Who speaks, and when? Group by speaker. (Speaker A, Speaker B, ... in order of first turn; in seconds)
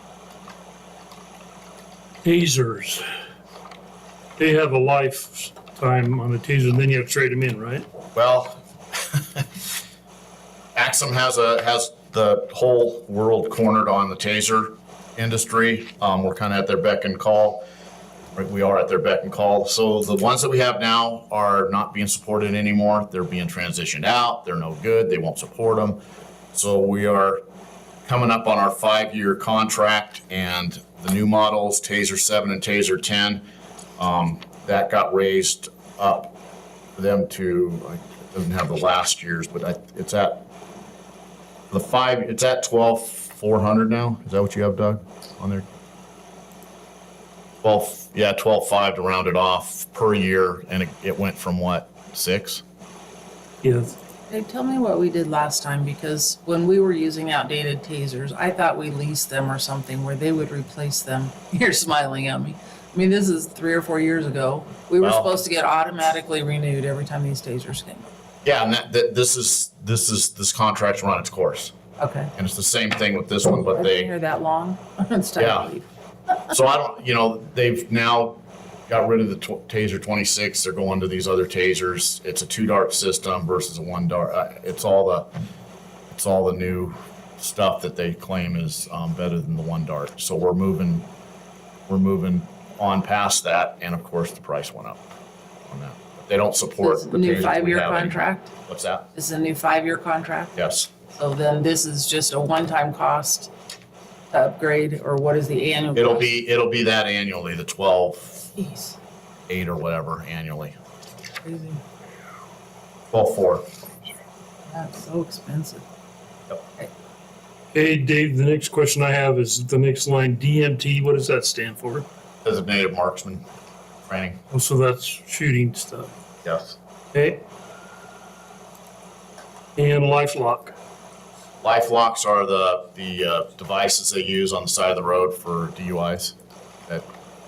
Speaker A: 2.2-3.0, 4.4-7.8, 53.6-54.0, 117.7-122.0, 124.5-126.1, 127.1-127.4, 129.8-130.7
Speaker B: 8.1-9.4, 10.7-17.6, 18.4-26.0, 26.5-27.4, 28.1-33.4, 34.0-36.3, 37.0-40.4, 41.7-45.6, 47.6-52.6, 65.0-65.3, 68.4-71.7, 72.3-74.1, 75.4-75.7, 76.5-85.3, 86.1-91.1, 91.9-95.0, 95.7-99.1, 100.5-100.9, 105.9-108.5, 109.5-110.8, 113.1-113.7, 122.4-123.4, 124.1-124.4, 126.4-126.8, 131.6-136.3
Speaker C: 54.3-68.1, 72.0-72.3, 73.7-75.9, 96.8-98.5, 99.1-100.5, 101.1-103.5, 104.3-106.3, 108.5-109.0, 111.4-111.8, 114.7-115.8